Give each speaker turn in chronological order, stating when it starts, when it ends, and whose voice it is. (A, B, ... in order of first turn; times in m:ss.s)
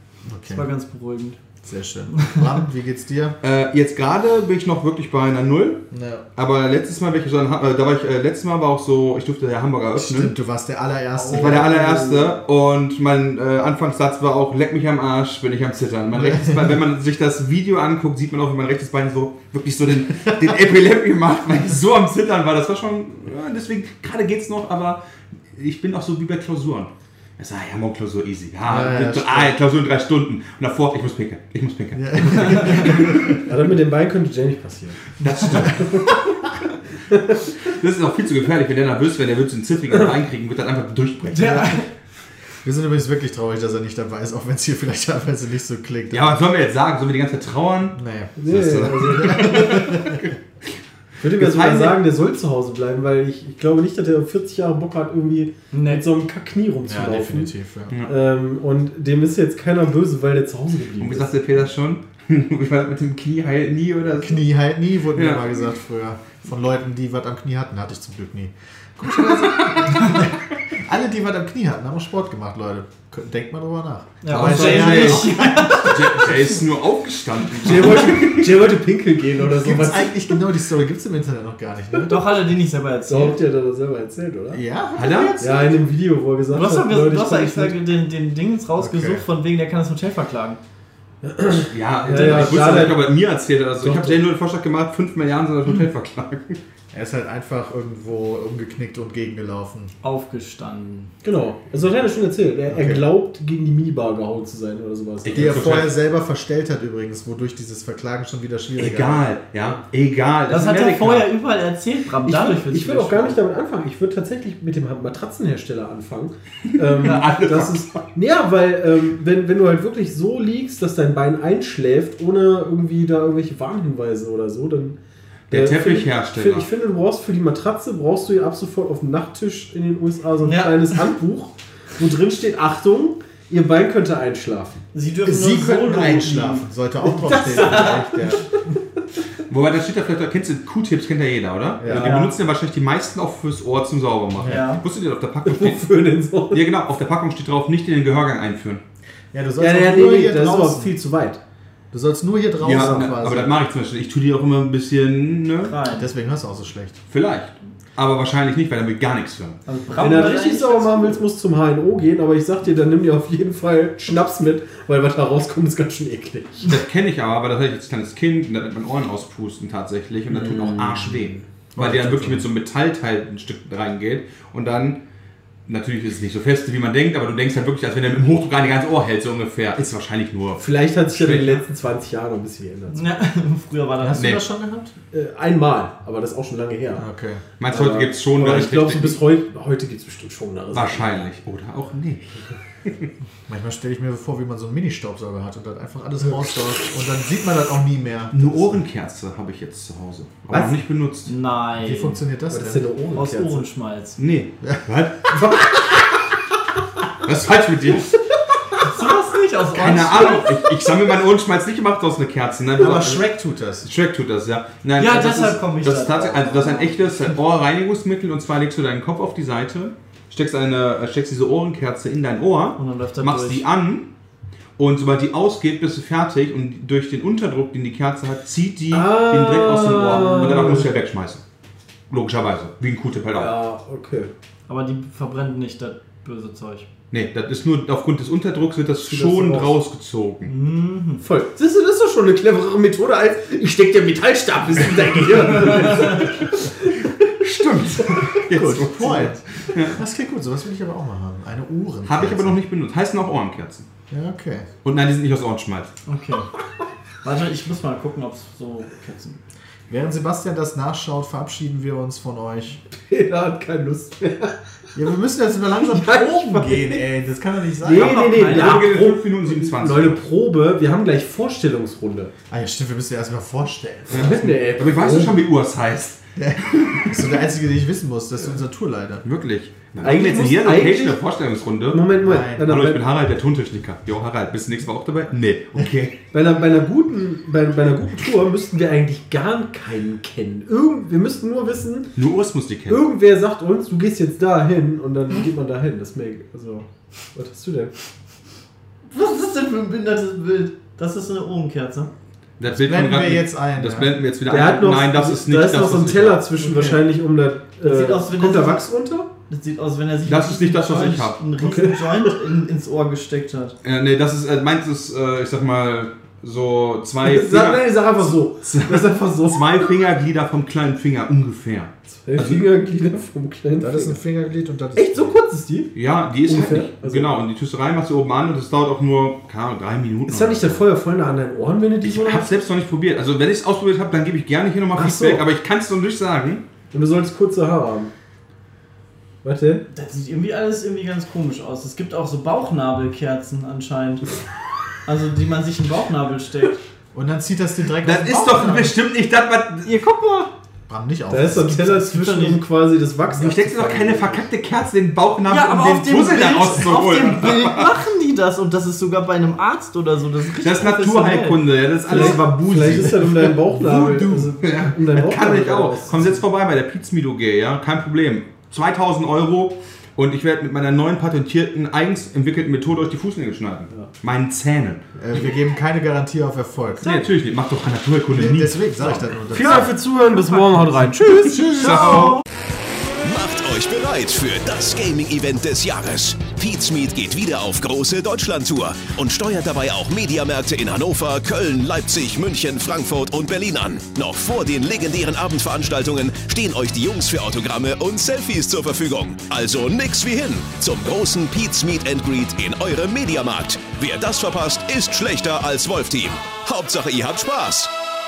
0:00.2-0:00.7 A
0:00.4-0:01.4 B
0:01.6-0:03.4 A
0:03.4-0:05.8 C
0:05.9-0:06.2 A
0:06.4-0:10.3 C
0:09.9-0:11.9 A
0:11.2-0:12.3 D
0:11.3-0:25.0 C
0:16.1-0:16.7 A
0:25.5-0:33.2 C
0:28.6-0:29.6 A
0:31.9-0:33.5 A
0:33.3-0:36.0 D
0:35.2-0:36.4 C
0:37.1-0:37.5 D
0:37.6-0:41.7 C
0:41.3-0:41.9 B
0:41.4-0:41.8 A
0:42.6-0:46.4 A
0:46.1-0:50.3 C
0:47.9-0:50.3 A
0:48.4-0:49.7 D
0:51.2-0:57.5 D
0:51.4-0:52.0 C
0:55.7-0:56.0 B
0:56.8-0:57.9 A
0:57.9-0:58.1 C
0:58.0-1:01.3 D
1:01.0-1:04.4 C
1:04.2-1:16.6 A
1:05.1-1:05.5 C
1:14.2-1:16.3 B
1:14.3-1:18.6 C
1:17.6-1:20.2 D
1:19.4-1:22.2 A
1:22.0-1:23.4 B
1:23.1-1:24.6 D
1:24.5-1:25.8 A
1:25.0-1:25.4 C
1:25.4-1:27.7 D
1:26.5-1:30.6 B
1:28.8-1:29.2 A
1:31.2-1:33.2 D
1:31.7-1:36.6 C
1:32.1-1:32.6 B
1:33.8-1:34.2 D
1:36.9-1:39.9 A
1:40.0-1:41.1 B
1:41.2-1:45.8 D
1:42.7-1:43.1 A
1:45.2-1:45.9 C
1:45.3-1:49.3 A
1:48.8-1:51.3 C
1:50.5-1:53.4 B
1:52.2-2:05.0 D
1:56.7-1:58.1 C
2:05.5-2:06.7 C
2:05.5-2:14.8 D
2:10.4-2:11.0 B
2:14.9-2:16.6 B
2:15.2-2:18.5 A
2:17.0-2:18.3 D
2:17.3-2:18.0 B
2:19.5-2:25.9 C
2:21.8-2:22.2 A
2:21.8-2:22.3 D
2:24.4-2:24.7 A
2:24.4-2:24.8 B
2:25.4-2:26.6 D
2:26.5-2:28.8 C
2:29.3-2:30.9 A
2:29.6-2:31.4 D
2:31.9-2:33.5 A
2:32.6-2:35.7 C
2:35.6-2:36.1 B
2:35.9-2:37.0 A
2:37.1-2:39.6 C
2:39.6-2:41.2 B
2:40.0-2:46.7 D
2:46.6-2:55.0 C
2:50.4-2:51.4 D
2:51.7-2:52.4 A
2:55.7-3:01.6 C
3:00.6-3:03.1 D
3:02.9-3:04.5 B
3:04.0-3:04.9 A
3:04.1-3:04.4 C
3:05.1-3:07.0 D
3:06.9-3:07.4 A
3:07.6-3:09.2 C
3:07.7-3:11.2 D
3:10.7-3:13.1 C
3:13.5-3:18.8 A
3:18.3-3:21.3 C
3:20.5-3:20.8 D
3:21.3-3:22.2 B
3:21.8-3:22.9 A
3:22.5-3:23.7 D
3:23.1-3:24.2 B
3:24.2-3:25.6 C
3:27.2-3:28.1 C
3:28.8-3:30.6 B
3:29.7-3:33.3 C
3:32.8-3:33.9 A
3:33.8-3:44.1 C
3:35.0-3:37.0 B
3:42.8-3:43.6 B
3:44.8-3:51.4 C
3:48.9-3:50.9 D
3:52.1-3:53.5 C
3:53.4-3:54.3 D
3:54.7-3:56.9 B
3:57.1-4:00.5 C
3:59.1-3:59.7 D
4:00.4-4:01.2 B
4:01.2-4:07.1 D
4:07.4-4:10.0 C
4:08.5-4:12.6 A
4:12.0-4:13.9 C
4:14.1-4:14.7 A
4:14.8-4:15.9 C
4:16.0-4:16.5 B
4:17.2-4:19.4 B
4:19.9-4:22.8 A
4:22.9-4:24.6 D
4:24.9-4:28.2 A
4:25.8-4:27.0 D
4:27.8-4:32.3 D
4:27.9-4:28.9 B
4:28.3-4:30.2 C
4:32.5-4:34.6 A
4:34.1-4:37.3 C
4:34.1-4:35.4 D
4:36.4-4:39.2 A
4:39.2-4:46.2 C
4:40.0-4:41.2 D
4:41.9-4:43.0 D
4:42.2-4:42.7 A
4:46.3-4:52.1 D
4:52.2-4:53.0 C
4:52.9-4:57.9 D
4:59.1-5:02.1 B
5:02.6-5:06.4 C
5:02.7-5:04.1 A
5:04.5-5:09.3 D
5:06.6-5:06.9 A
5:07.8-5:08.9 B
5:09.5-5:13.7 B
5:10.2-5:11.4 C
5:11.6-5:12.3 D
5:13.8-5:22.7 C
5:17.2-5:19.9 D
5:22.2-5:24.2 D
5:23.8-5:25.3 A
5:25.0-5:25.9 D
5:25.9-5:30.8 C
5:26.4-5:27.4 D
5:30.3-5:32.6 D
5:32.0-5:36.6 C
5:34.9-5:35.4 D
5:36.9-5:38.1 D
5:39.4-5:39.8 D
5:39.9-5:44.3 B
5:45.0-5:46.8 B
5:47.1-5:49.0 A
5:48.0-5:49.9 C
5:49.8-5:50.5 B
5:50.9-5:52.1 A
5:51.3-5:54.5 D
5:52.0-5:52.6 B
5:53.3-5:57.9 C
5:55.5-6:02.3 B
6:00.6-6:15.0 C
6:02.1-6:06.4 D
6:15.2-6:17.1 A
6:17.0-6:19.8 C
6:18.3-6:19.9 A
6:19.5-6:22.2 D
6:21.6-6:22.4 C
6:21.8-6:22.4 B
6:23.2-6:47.9 E